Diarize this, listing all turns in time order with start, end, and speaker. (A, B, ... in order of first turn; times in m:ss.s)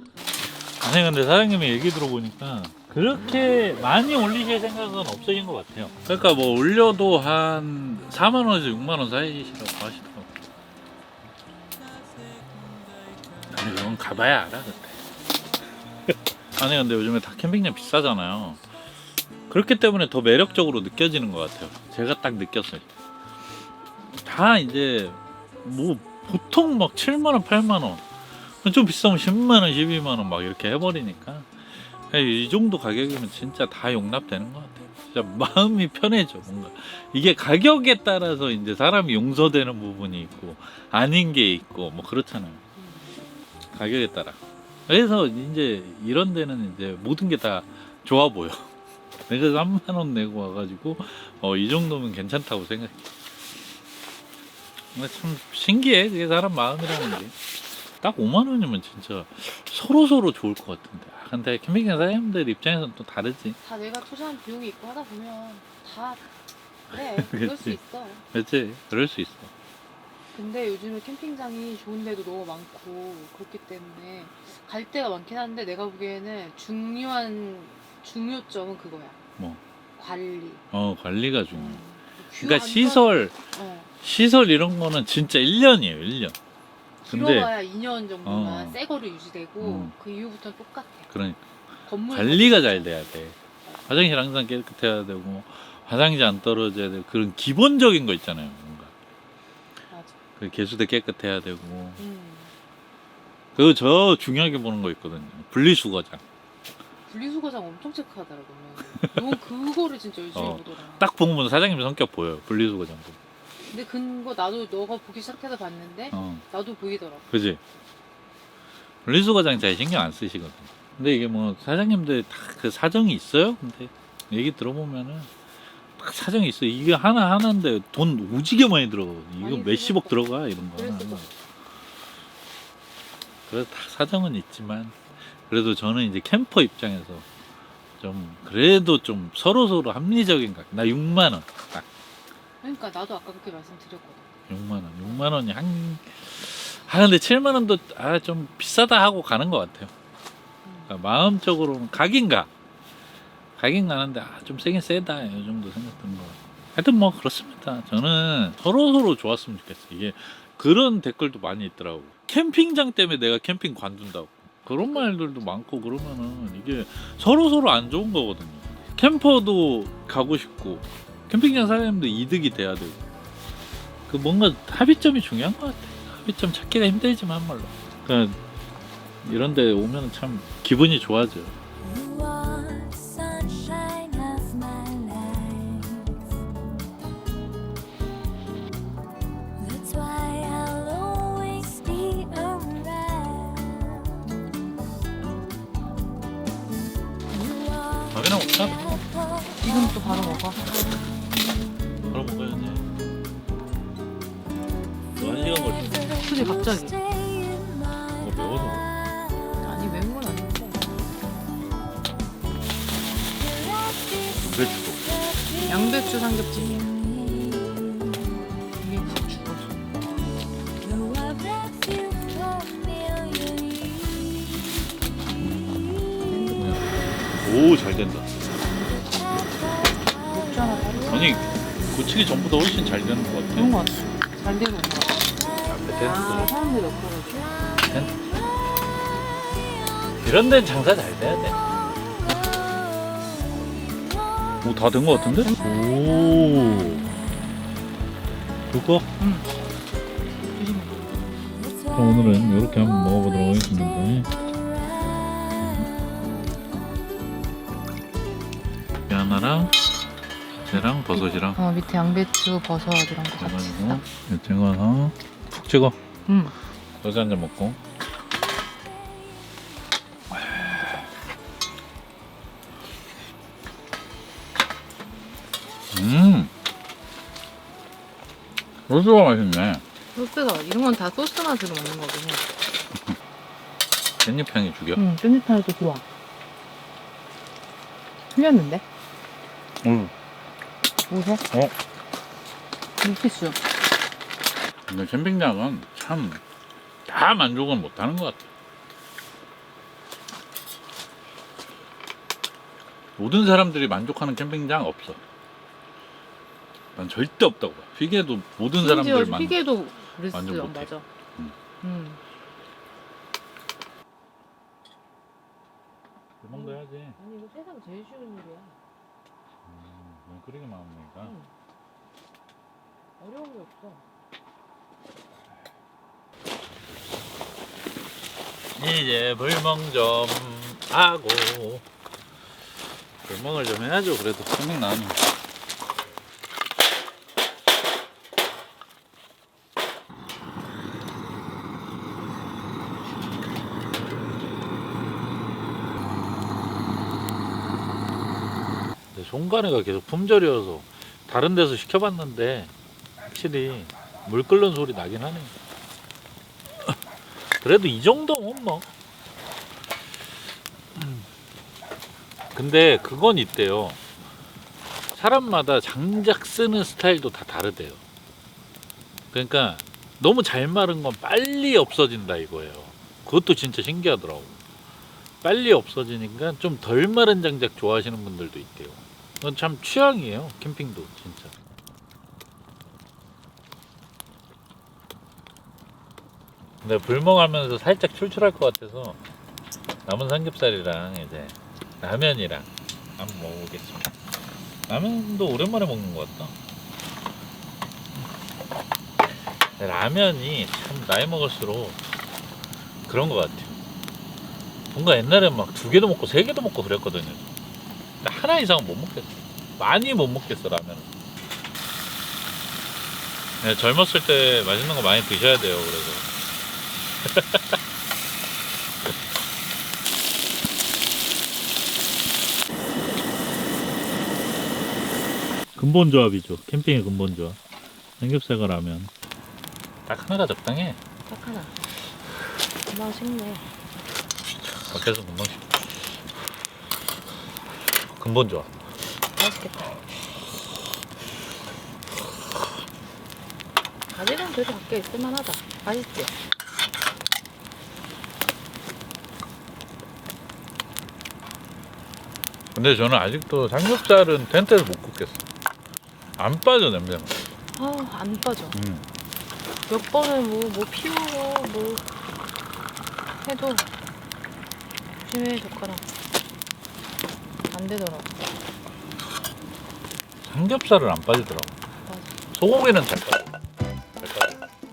0:00.8-0:10.3 A
0:13.5-0:15.0 A
0:16.6-0:18.6 A
0:19.5-0:22.9 A
0:24.2-0:28.1 A
0:28.6-0:42.6 A
0:42.8-0:43.1 B
0:43.7-0:48.7 A
0:49.3-0:53.0 A
0:54.9-0:57.4 A
0:58.0-1:03.6 A
1:03.6-1:06.2 B
1:06.9-1:08.2 B
1:06.9-1:07.8 A
1:08.3-1:09.5 A
1:10.3-1:19.2 B
1:20.0-1:20.6 B
1:20.7-1:21.8 A
1:21.5-1:23.9 B
1:22.4-1:23.4 A
1:24.0-1:26.4 A
1:27.0-1:31.1 B
1:27.1-1:27.5 A
1:28.2-1:28.8 A
1:29.6-1:29.9 A
1:31.1-1:31.4 A
1:31.8-1:33.2 B
1:32.1-1:33.4 A
1:33.9-1:38.9 A
1:39.9-1:40.2 B
1:40.4-1:42.0 A
1:42.0-1:42.5 B
1:43.6-1:46.2 A
1:47.1-1:51.1 B
1:50.3-1:53.2 A
1:53.7-1:57.3 B
1:56.1-1:56.4 A
1:57.3-1:57.6 A
1:59.0-2:05.3 A
2:06.0-2:11.3 A
2:09.4-2:11.3 B
2:13.5-2:15.0 A
2:15.5-2:17.3 A
2:18.0-2:21.8 A
2:22.6-2:24.3 B
2:24.5-2:29.9 A
2:25.0-2:25.4 B
2:30.6-2:30.9 B
2:30.9-2:32.5 A
2:33.6-2:53.0 A
2:54.1-2:58.4 A
2:59.2-3:01.6 A
3:01.8-3:06.2 C
3:09.6-3:14.1 C
3:18.1-3:19.1 A
3:19.6-3:20.7 B
3:22.1-3:22.9 A
3:25.2-3:26.1 A
3:26.1-3:27.0 B
3:27.1-3:27.8 C
3:28.2-3:28.9 A
3:29.6-3:30.9 B
3:34.4-3:35.1 A
3:35.5-3:37.0 B
3:38.8-3:39.8 B
3:40.9-3:44.3 C
3:45.4-3:46.0 A
3:46.2-3:47.1 B
3:46.6-3:48.4 A
3:50.2-3:51.4 B
3:51.1-3:53.8 A
3:53.6-3:55.3 B
3:55.7-3:56.5 A
3:56.0-3:57.7 B
3:57.8-3:58.3 A
4:00.2-4:01.7 A
4:04.6-4:07.1 A
4:05.4-4:05.8 B
4:08.7-4:09.1 A
4:09.2-4:09.5 B
4:10.4-4:11.3 B
4:11.9-4:14.3 A
4:15.6-4:15.9 A
4:19.1-4:19.8 A
4:20.7-4:21.6 A
4:20.7-4:24.0 B
4:23.4-4:26.0 A
4:26.3-4:26.6 B
4:27.0-4:27.8 A
4:30.3-4:31.0 A
4:30.5-4:31.0 B
4:35.9-4:36.5 A
4:38.9-4:39.8 A
4:40.2-4:42.5 B
4:44.2-4:45.0 A
4:44.9-4:46.0 B
4:48.3-4:48.8 B
4:49.8-4:50.1 A
4:51.1-4:51.4 B
4:53.0-4:53.6 B
4:54.9-4:56.4 A
4:57.1-4:58.5 A
5:03.2-5:05.2 A
5:06.9-5:09.6 A
5:08.8-5:11.1 B
5:10.3-5:11.6 A
5:11.8-5:12.2 B
5:16.4-5:17.2 A
5:16.5-5:18.8 B
5:19.7-5:21.4 A
5:21.2-5:21.5 B
5:23.2-5:24.0 B
5:28.8-5:31.8 A
5:33.2-5:35.2 A
5:49.1-5:52.7 A
5:53.3-5:55.5 A
5:57.6-5:58.9 A
6:00.9-6:01.3 A
6:02.6-6:04.0 A
6:05.1-6:08.0 A
6:09.3-6:14.6 A
6:15.4-6:21.5 A
6:26.8-6:29.2 A
6:30.0-6:34.2 A
6:34.9-6:36.5 A
6:39.8-6:42.0 A
6:43.1-6:43.8 A
6:44.9-6:47.5 A
6:48.2-6:51.1 A
6:53.6-6:56.3 A
6:57.2-6:57.8 A
7:05.8-7:07.6 A
7:08.2-7:09.1 A
7:10.1-7:11.0 A
7:11.3-7:11.8 B
7:12.9-7:13.7 B
7:14.9-7:15.8 A
7:18.1-7:18.7 A
7:19.4-7:19.9 B
7:24.1-7:26.3 B
7:32.7-7:35.4 A
7:36.4-7:37.5 A
7:37.8-7:38.8 B
7:38.7-7:39.1 A
7:39.9-7:42.0 B
7:43.4-7:43.9 B
7:45.2-7:46.0 B
7:47.7-7:48.3 B
7:50.4-7:51.7 A
7:52.1-7:52.4 B
7:52.5-7:53.5 A
7:54.2-7:54.6 A